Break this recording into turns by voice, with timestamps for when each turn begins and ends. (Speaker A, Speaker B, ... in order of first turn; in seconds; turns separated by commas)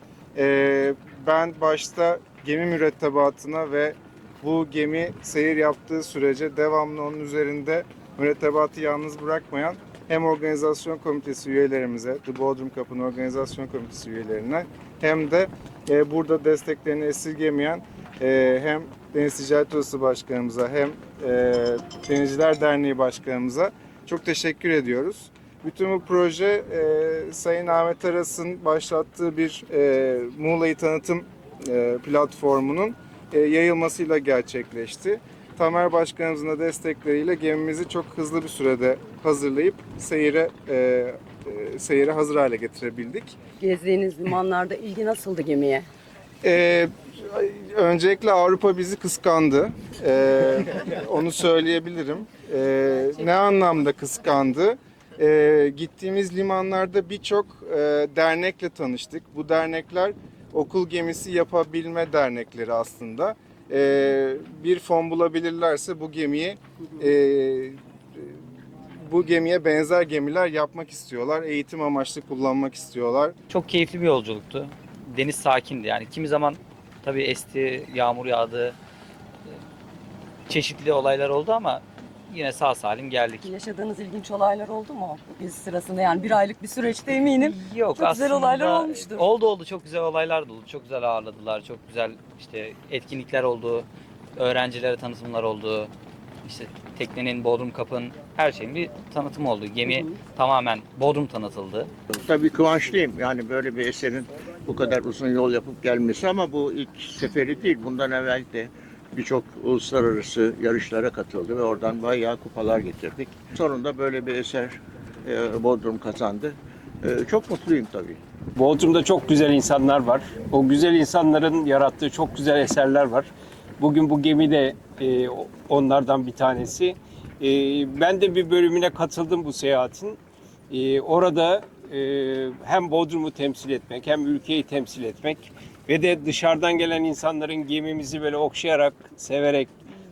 Speaker A: 0.3-43.4, Speaker B: 43.6-45.9, Speaker A: 46.4-73.3, Speaker C: 73.5-78.8, Speaker C: 80.5-83.5, Speaker B: 83.4-89.2, Speaker C: 87.4-95.9, Speaker C: 96.4-101.9, Speaker D: 102.1-118.2, Speaker E: 118.5-130.2, Speaker E: 130.7-139.7